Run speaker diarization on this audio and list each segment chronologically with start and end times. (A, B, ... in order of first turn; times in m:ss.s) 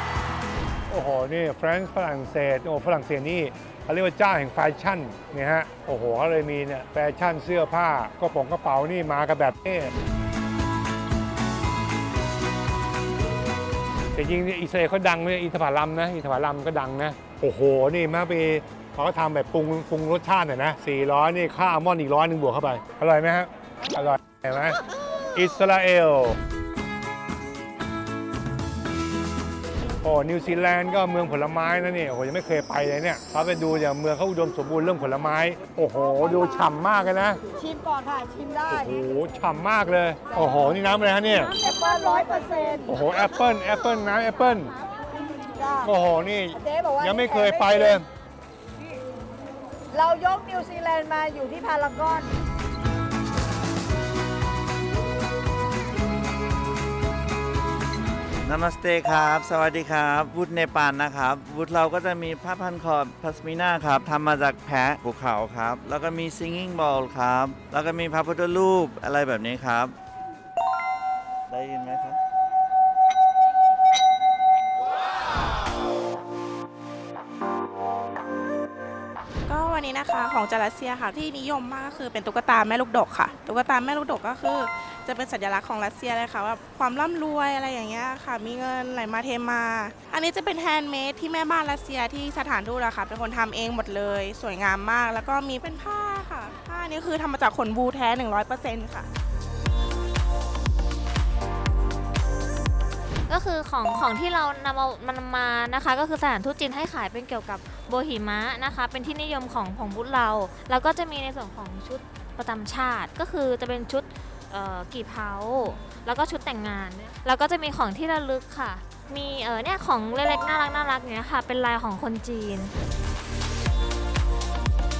0:00.9-0:09.9 A
0:14.2-0:24.8 A
0:25.4-0:26.4 A
0:30.0-0:37.4 A
0:37.6-0:39.0 B
0:38.7-0:41.5 A
0:41.5-0:42.9 B
0:42.9-0:44.7 A
0:45.6-0:45.9 B
0:45.8-0:48.0 A
0:46.6-0:48.0 B
0:49.9-0:52.3 B
0:58.4-1:10.0 C
1:11.5-1:12.2 C
1:19.5-1:39.1 D
1:43.3-2:02.7 E